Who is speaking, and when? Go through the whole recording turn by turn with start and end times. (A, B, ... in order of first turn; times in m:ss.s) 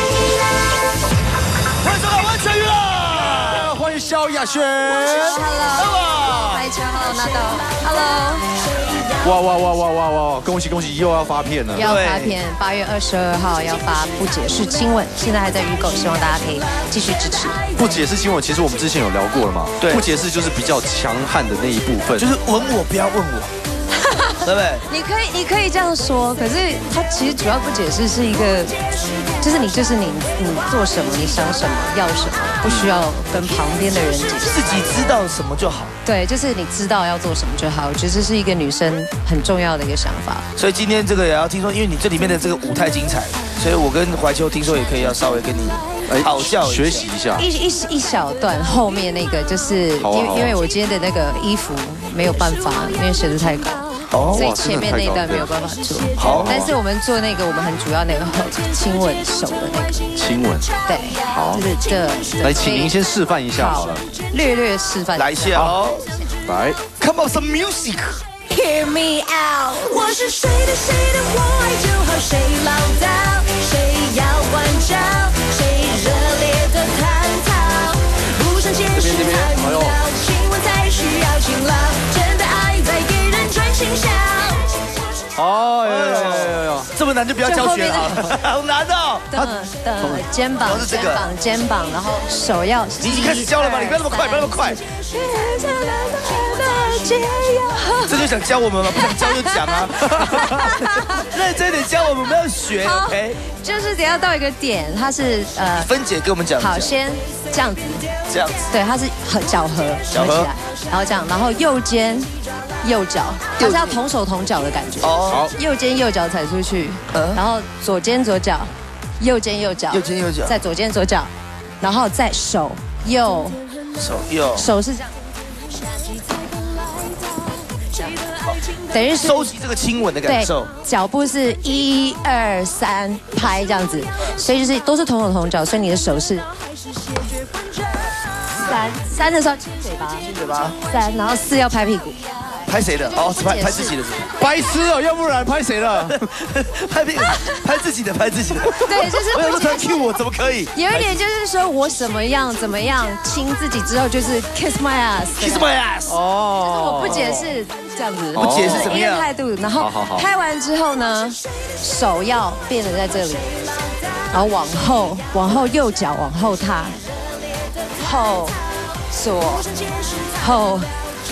0:01.8-0:03.7 A
0:03.1-0:05.5 B
0:05.0-0:08.6 C
0:05.7-0:06.6 A
0:09.2-0:11.9 B
0:11.7-0:17.6 C
0:11.8-0:12.4 A
0:17.8-0:22.3 B
0:19.8-0:20.0 A
0:22.2-0:23.5 A
0:24.0-0:28.7 C
0:24.4-0:24.8 A
0:29.4-0:34.7 C
0:32.6-0:32.9 B
0:34.4-0:35.9 A
0:36.0-0:40.4 C
0:40.6-0:47.1 A
0:46.1-0:47.5 B
0:47.4-1:00.1 C
0:50.0-0:50.6 B
0:54.1-0:54.5 A
0:54.3-0:55.5 B
0:56.2-0:56.7 A
0:56.2-0:56.7 B
1:00.1-1:00.7 B
1:00.8-1:02.9 C
1:01.2-1:01.6 B
1:02.4-1:04.1 B
1:03.5-1:05.6 C
1:05.2-1:06.0 A
1:06.4-1:06.8 B
1:07.0-1:08.2 A
1:08.5-1:24.7 D
1:18.9-1:20.0 B
1:25.4-1:26.9 B
1:25.8-1:29.3 A
1:27.4-1:28.3 C
1:29.3-1:38.2 C
1:30.6-1:31.3 A
1:33.0-1:34.8 A
1:38.0-1:43.4 A
1:38.9-1:41.3 C
1:42.8-1:45.9 C
1:45.8-1:46.9 A
1:46.6-1:48.1 C
1:48.3-1:48.6 A
1:48.7-1:52.3 C
1:50.1-1:50.5 A
1:52.8-2:03.6 C
1:53.6-1:54.0 A
1:55.0-1:55.5 A
1:57.1-1:57.4 A
1:59.9-2:00.6 A
2:04.0-2:04.7 A
2:04.5-2:05.1 C
2:08.9-2:09.5 C
2:09.2-2:10.7 A
2:10.2-2:16.5 C
2:18.5-2:20.3 C
2:20.2-2:20.8 A
2:20.8-2:22.2 C
2:22.7-2:24.4 A
2:23.1-2:24.0 C
2:24.4-2:26.2 B
2:26.0-2:31.2 A
2:28.8-2:30.1 C
2:30.7-2:35.7 C
2:35.4-2:36.2 A
2:36.1-2:37.4 B
2:36.6-2:43.5 C
2:37.1-2:37.4 A
2:38.3-2:39.0 B
2:38.4-2:39.3 A
2:39.8-2:40.3 B
2:44.3-2:47.0 C
2:48.0-2:48.6 C
2:49.1-2:49.7 C
2:50.3-2:50.9 C